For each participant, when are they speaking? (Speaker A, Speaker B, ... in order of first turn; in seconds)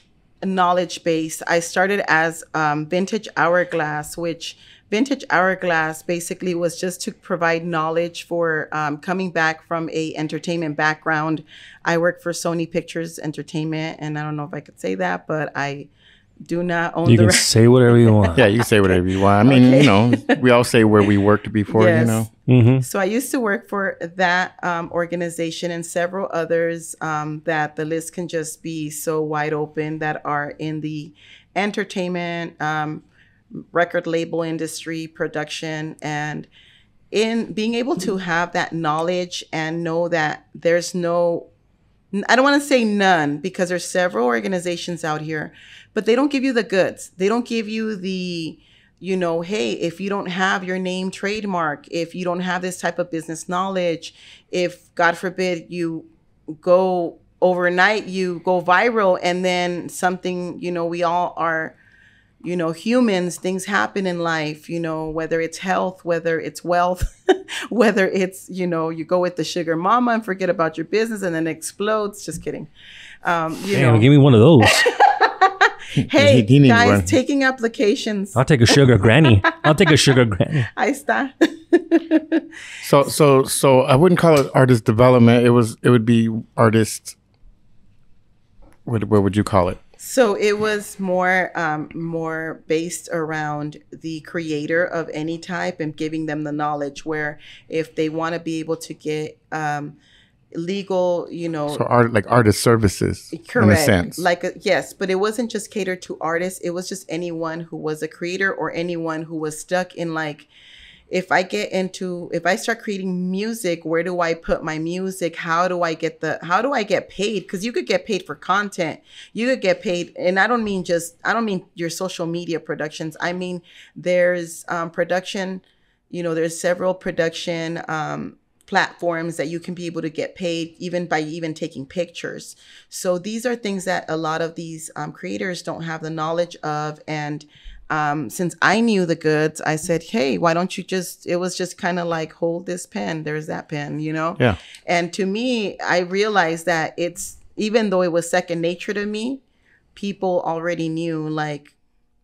Speaker A: 0.4-15.9, 16.4-20.4, 21.7-22.3, 22.8-36.5, 37.1-41.5, 42.1-56.1, 56.6-61.8, 62.4-72.7, 73.2-74.0, 74.7-78.4, 79.2-79.9, 80.7-82.4, 90.0-100.0, 100.5-101.8, 103.3-110.5, 111.1-149.4, 149.9-151.7
Speaker B: 17.1-18.4, 22.5-22.8, 73.7-74.8, 78.3-80.7
Speaker C: 18.4-22.3, 76.0-77.2, 82.8-87.2, 88.8-89.8, 101.7-104.2